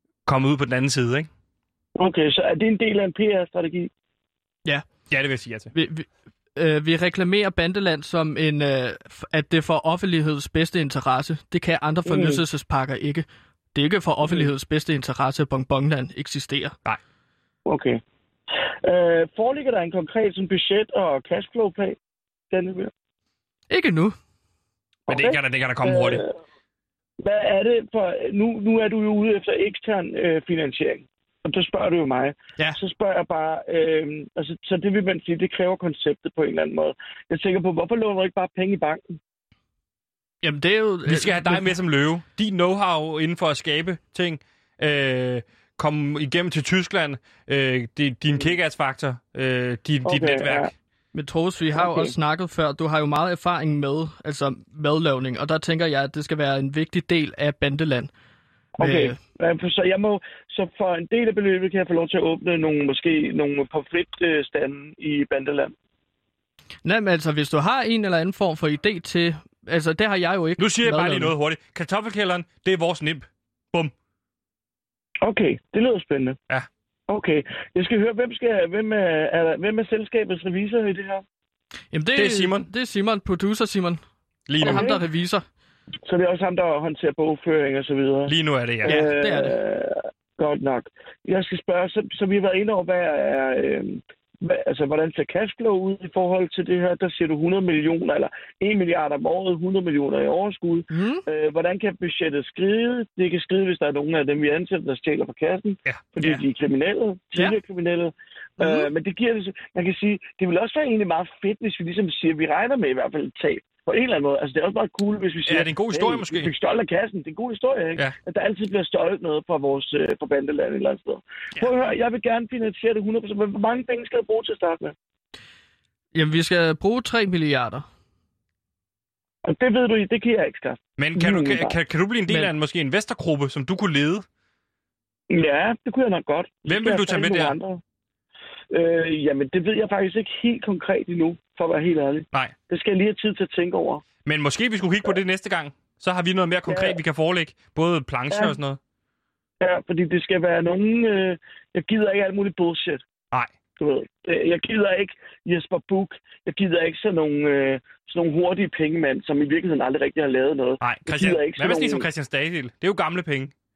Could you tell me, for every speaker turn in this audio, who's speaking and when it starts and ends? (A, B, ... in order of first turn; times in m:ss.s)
0:00.3-0:01.3 A
0:02.0-0:03.9 B
0:05.1-0:05.7 A
0:05.7-0:16.8 C
0:12.1-0:12.4 B
0:17.7-0:18.0 B
0:18.8-0:22.0 B
0:22.5-0:22.9 B
0:23.7-0:24.2 C
0:25.1-0:26.2 A
0:25.1-0:26.4 B
0:27.2-0:39.2 B
0:40.4-0:41.7 C
0:41.1-0:50.7 A
0:50.1-0:50.7 B
0:51.1-0:58.1 C
0:51.8-0:52.1 B
0:58.8-1:05.7 B
0:58.8-0:59.2 C
1:06.8-1:11.3 C
1:10.6-1:13.9 A
1:15.2-1:16.4 B
1:17.1-1:21.2 B
1:21.9-1:24.0 C
1:22.2-1:22.7 A
1:24.5-1:25.0 A
1:24.6-1:25.4 C
1:24.6-1:25.0 B
1:26.0-1:28.3 B
1:28.3-1:29.0 A
1:28.8-1:29.6 C
1:28.8-2:05.0 B
1:40.9-1:41.2 C
1:45.9-1:46.3 A
1:48.6-1:48.9 C
1:55.5-1:56.5 A
2:06.2-2:07.8 C
2:09.4-2:11.8 B
2:11.0-2:14.2 A
2:15.3-2:17.8 B
2:16.7-2:17.6 A
2:18.7-2:24.0 B
2:24.2-2:28.8 A
2:26.7-2:27.0 B
2:28.3-2:28.6 B
2:29.6-2:33.0 B
2:33.8-2:42.1 B
2:40.8-2:43.5 A